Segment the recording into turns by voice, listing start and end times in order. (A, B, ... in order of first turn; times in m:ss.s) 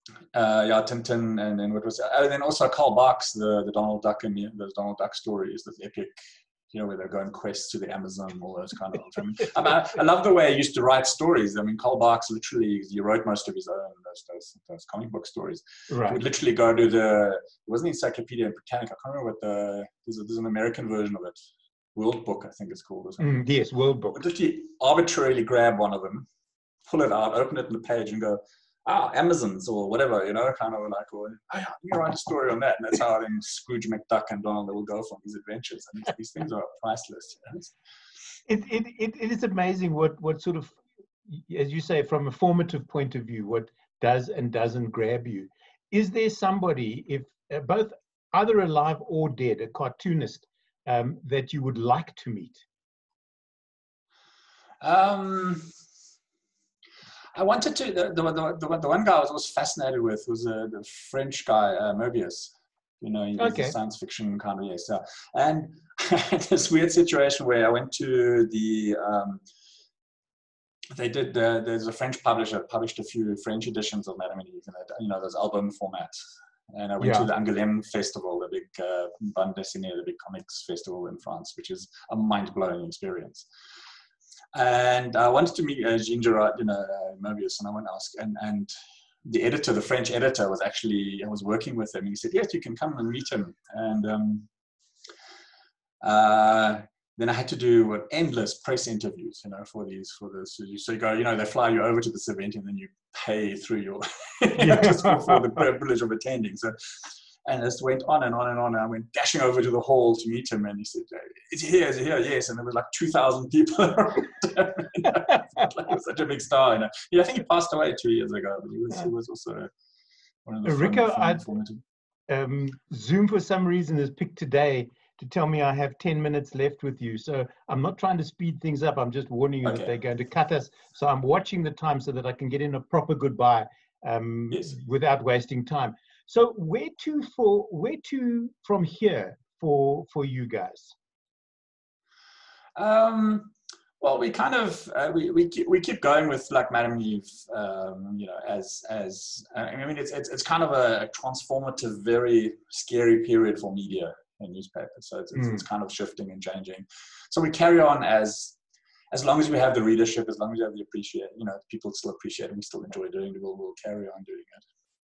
0:00.3-0:06.2 A
0:06.7-0:21.4 A
0:15.9-0:16.2 B
0:21.9-0:23.4 A
0:23.2-0:24.2 B
0:24.1-0:26.3 A
0:26.8-0:37.7 A
0:38.5-0:52.6 B
0:54.8-0:55.7 A
0:57.3-1:09.4 A
1:03.4-1:03.7 B
1:10.9-1:16.1 A
1:16.7-1:23.5 A
1:17.0-1:17.3 B
1:24.5-1:28.7 A
1:29.2-1:34.5 A
1:36.0-1:59.7 A
1:44.6-1:45.2 B
2:00.4-2:01.8 A
2:00.6-2:01.4 B
2:02.3-2:20.9 B
2:09.6-2:09.9 A
2:22.8-2:38.6 A
2:39.1-2:44.6 A